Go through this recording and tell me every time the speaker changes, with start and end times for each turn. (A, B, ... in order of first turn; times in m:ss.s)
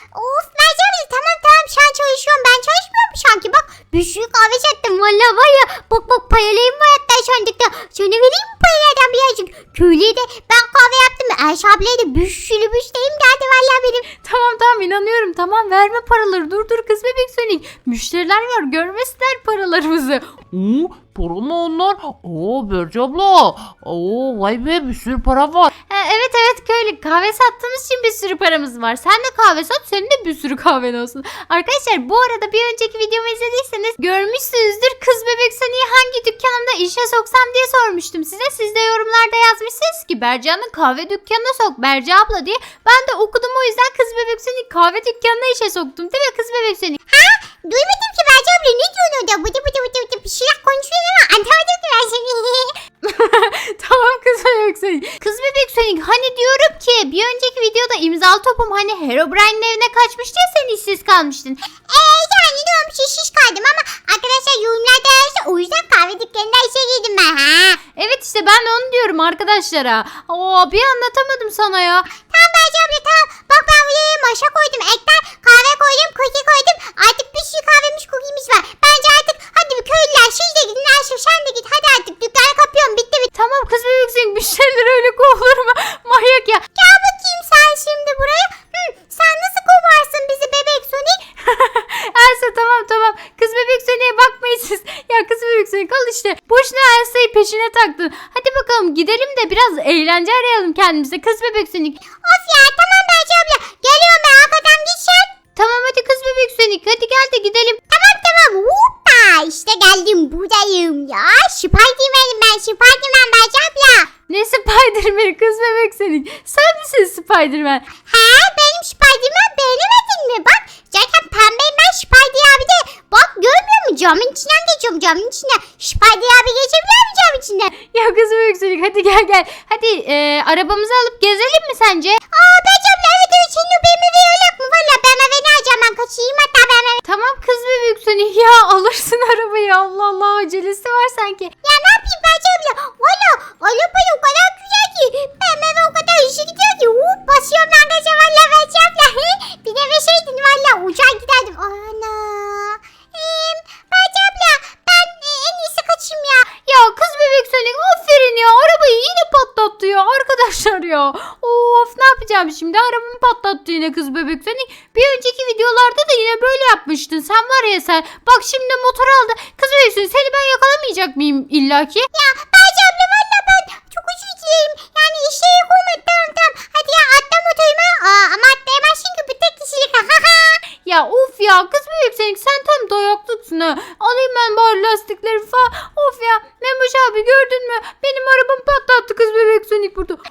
0:00.1-0:14.0 A
0:14.2-0:20.2 B
0:20.5-0:25.7 C
0:25.9-0:47.0 B
0:47.1-0:52.8 A
0:53.0-1:01.6 B
1:01.9-1:07.8 A
1:08.0-1:12.1 B
1:12.2-1:23.3 A
1:23.3-1:26.6 B
1:26.8-1:31.2 A
1:31.4-1:42.0 B
1:42.2-1:45.3 A
1:45.6-1:47.8 B
1:47.9-1:54.1 A
1:54.3-1:57.8 B
1:58.0-2:07.7 A
2:07.8-2:12.2 B
2:12.3-2:17.0 A
2:17.0-2:21.5 B
2:21.6-2:36.5 A
2:36.6-2:52.1 B
2:52.1-3:00.6 A
3:00.8-3:10.2 B